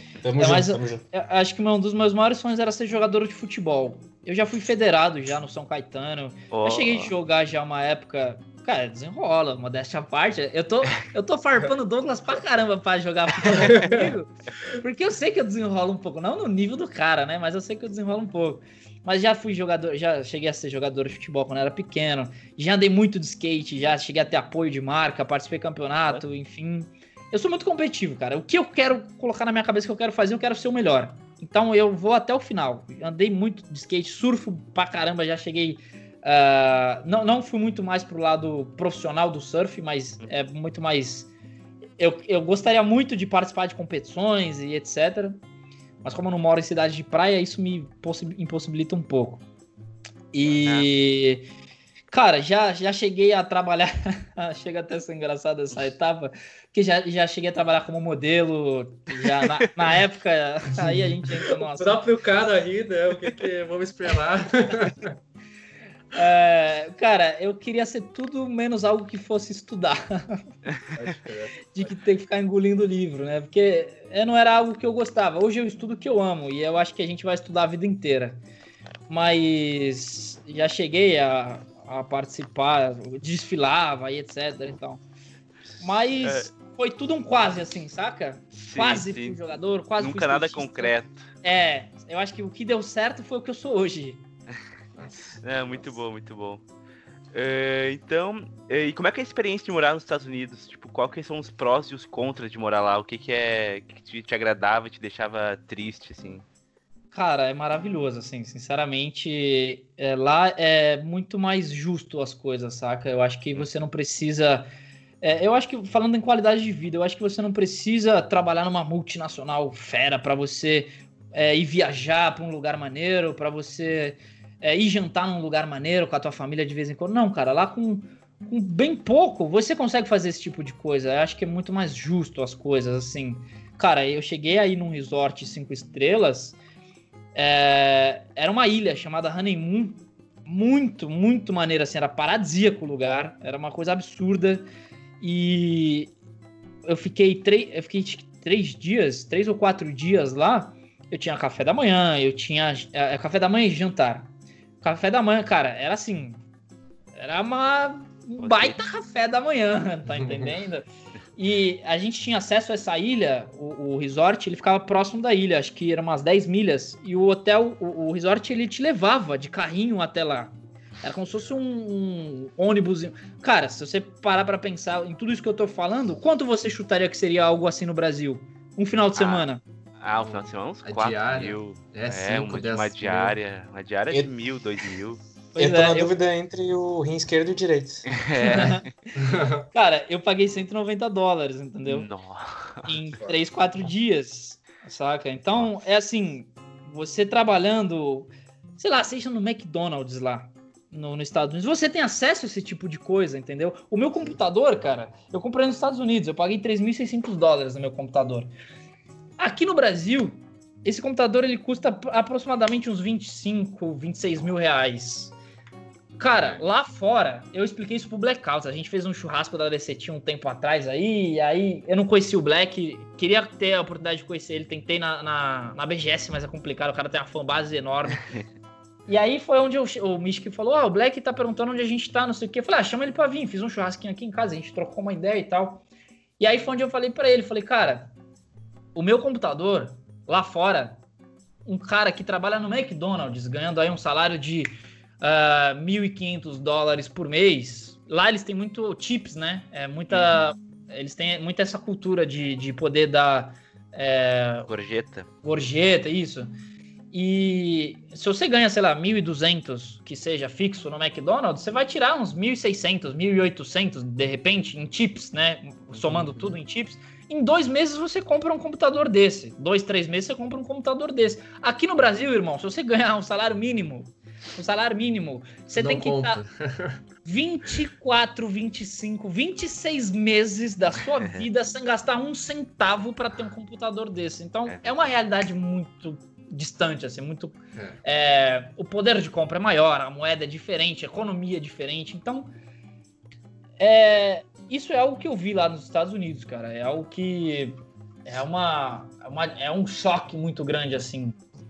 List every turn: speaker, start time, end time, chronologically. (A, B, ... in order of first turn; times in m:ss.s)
0:00.2-0:01.0 A
0:00.4-0:41.3 B
0:06.5-0:07.1 C
0:13.5-0:14.1 D
0:42.0-0:45.4 B
0:46.0-0:49.4 B
0:50.3-0:51.4 B
0:50.5-0:50.9 C
0:52.1-1:02.0 B
1:00.8-1:05.2 D
1:06.1-1:10.4 B
1:10.9-1:11.9 D
1:11.7-1:18.4 B
1:19.1-1:25.0 B
1:25.8-1:34.2 B
1:28.6-1:29.4 C
1:30.0-1:31.3 C
1:35.0-1:35.4 D
1:35.4-1:36.6 C
1:37.3-1:46.4 C
1:47.1-1:54.7 B
1:55.2-2:16.6 B
2:17.3-2:24.6 B
2:25.2-2:26.1 B
2:26.8-2:36.4 B
2:37.1-2:59.6 B
2:38.4-2:38.8 C
2:40.1-2:40.6 D
2:59.2-2:59.5 C
3:00.0-3:05.2 C
3:00.2-3:03.4 D
3:05.5-3:06.2 B
3:05.6-3:08.7 A
3:08.1-3:08.9 C
3:08.4-3:08.8 B
3:09.2-3:09.6 D
3:09.7-3:12.1 B
3:11.8-3:12.9 C
3:12.8-3:28.5 B
3:29.4-3:35.3 B
3:36.2-3:48.3 B
3:36.4-3:36.6 D
3:49.1-3:55.8 B
3:56.4-3:58.1 B
3:58.9-4:01.0 B
4:01.6-4:14.7 B
4:14.7-4:15.3 C
4:15.4-4:16.5 B
4:17.1-4:36.4 B
4:25.9-4:26.6 D
4:35.7-4:37.0 D
4:37.2-4:52.5 B
4:41.2-4:41.5 C
4:53.8-5:01.4 B